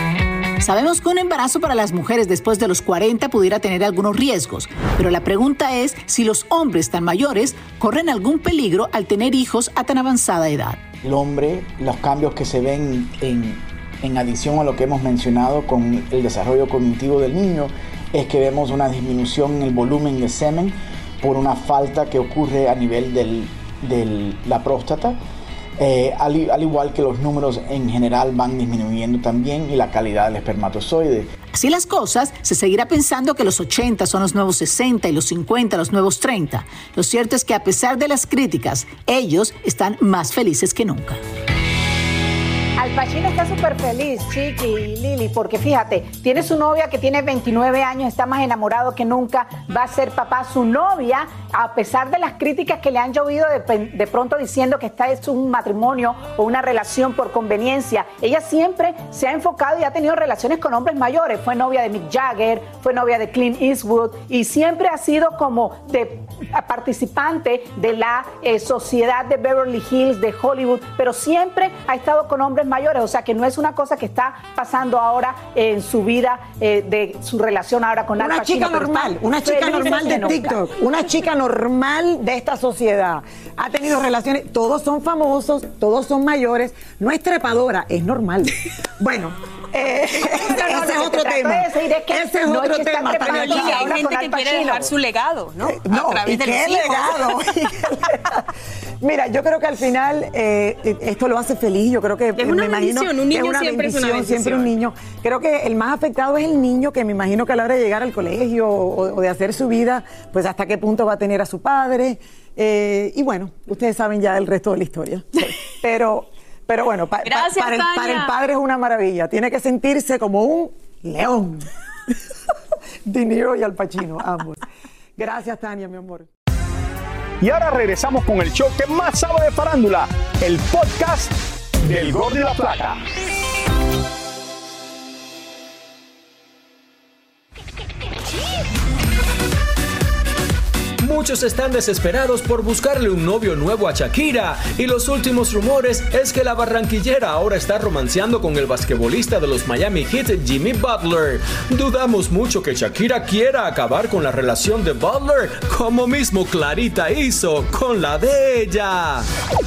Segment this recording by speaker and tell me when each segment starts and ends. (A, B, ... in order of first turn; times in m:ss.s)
0:00.6-0:10.8 A
0:11.0-0:25.2 B
0:25.8-0:31.3 B
0:31.5-0:41.2 A
0:42.8-1:20.6 C
1:18.2-1:34.8 D
1:30.4-1:34.7 C
1:33.1-1:37.4 E
1:35.6-1:38.5 D
1:39.0-2:01.7 D
1:42.4-1:44.7 E
1:57.2-1:58.3 E
2:03.0-2:04.6 D
2:05.2-2:06.3 D
2:07.4-2:13.0 F
2:21.0-2:39.3 G